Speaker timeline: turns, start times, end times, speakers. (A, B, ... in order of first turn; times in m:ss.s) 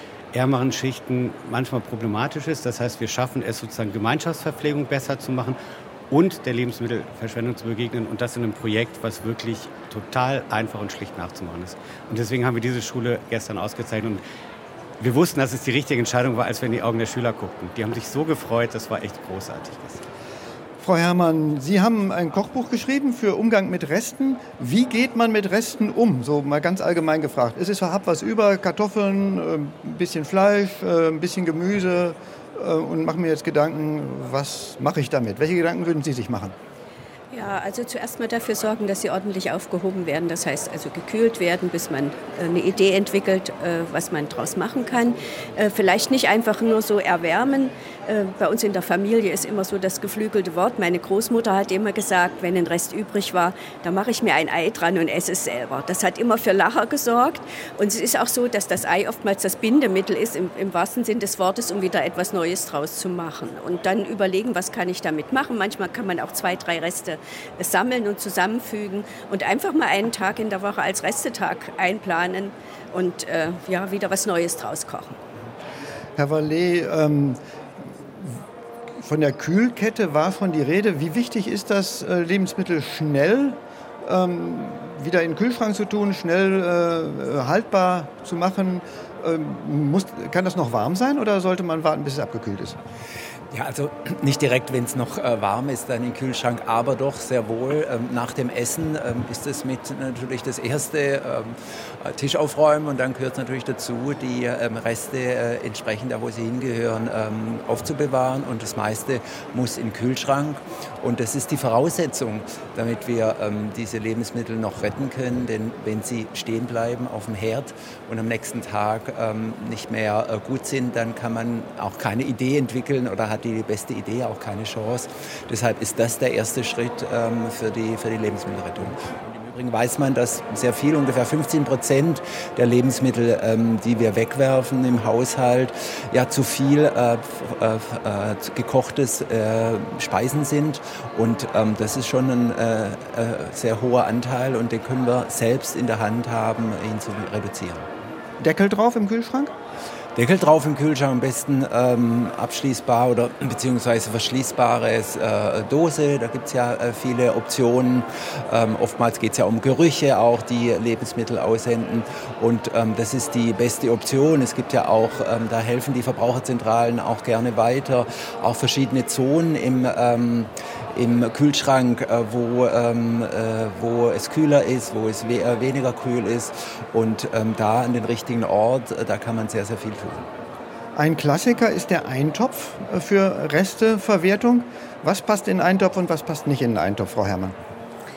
0:00.3-0:05.6 A
0:06.1-0:14.2 A
0:15.0-0:20.0 A
0:20.8-0:36.5 B
0:37.3-1:15.2 C
1:16.2-1:17.4 B
1:19.0-1:32.8 B
1:33.5-2:27.9 D
2:28.4-2:29.5 B
2:30.1-3:00.3 D
3:00.9-3:07.5 B